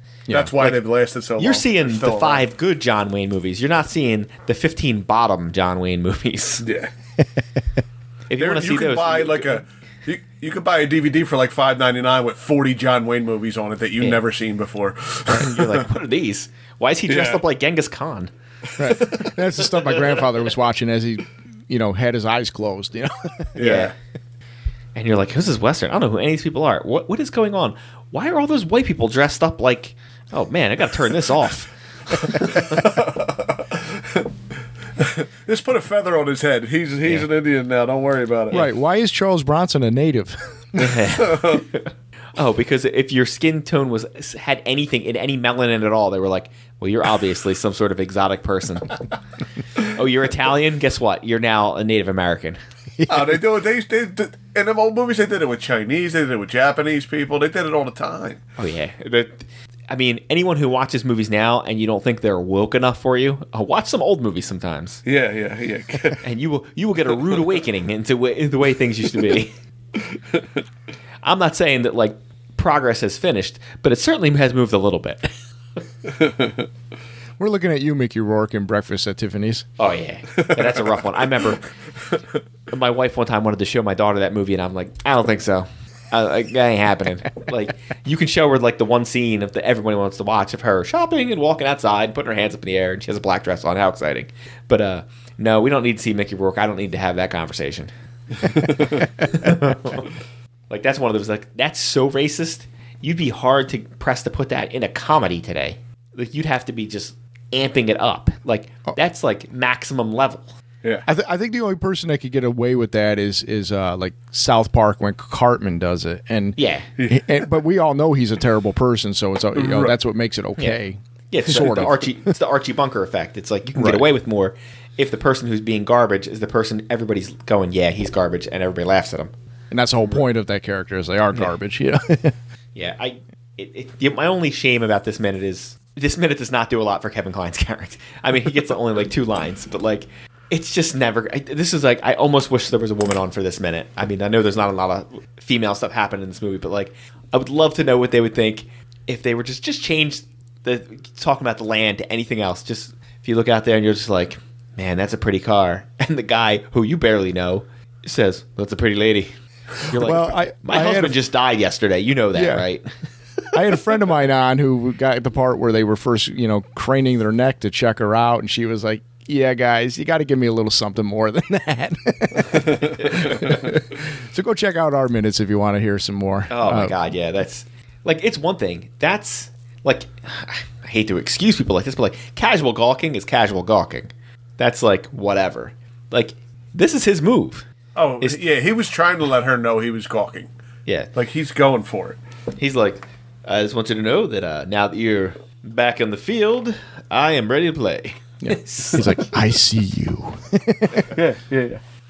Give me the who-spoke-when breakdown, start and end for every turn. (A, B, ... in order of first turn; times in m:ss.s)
0:00.3-0:02.4 A
0:00.5-0:00.8 B
0:01.4-0:06.6 B
0:06.6-0:06.9 A
0:08.3-0:09.6 B
0:08.4-0:15.9 A
0:15.3-0:18.3 B
0:17.1-0:17.4 A
0:18.8-0:23.6 C
0:18.8-0:19.3 A
0:23.5-0:23.9 A
0:23.6-0:23.9 B
0:24.9-0:32.8 B
0:32.5-0:34.2 A
0:35.0-0:38.7 A
0:38.5-0:40.8 C
0:40.8-0:49.0 B
0:41.2-0:41.6 A
0:49.8-0:52.6 B
0:53.0-0:53.4 C
0:53.1-0:58.4 A
0:58.6-1:05.0 B
1:05.0-1:06.2 A
1:06.2-1:09.5 B
1:11.2-1:15.3 B
1:17.4-1:19.6 C
1:19.8-1:21.6 B
1:22.7-1:37.9 B
1:38.4-1:40.1 B
1:40.7-1:50.5 B
1:51.0-2:02.4 C
1:56.6-1:56.9 B
1:57.0-1:57.3 A
1:59.6-2:00.0 A
2:01.3-2:09.3 B
2:03.7-2:04.1 C
2:09.7-2:12.3 C
2:12.7-2:42.9 B
2:39.9-2:41.2 C
2:42.3-2:42.6 C
2:43.4-2:43.8 B
2:43.5-2:57.0 C
2:53.0-2:53.5 B
2:56.5-3:07.6 B
3:07.9-3:10.5 A
3:11.1-3:12.2 A
3:12.6-3:19.2 B
3:18.4-3:21.1 C
3:21.1-3:21.8 A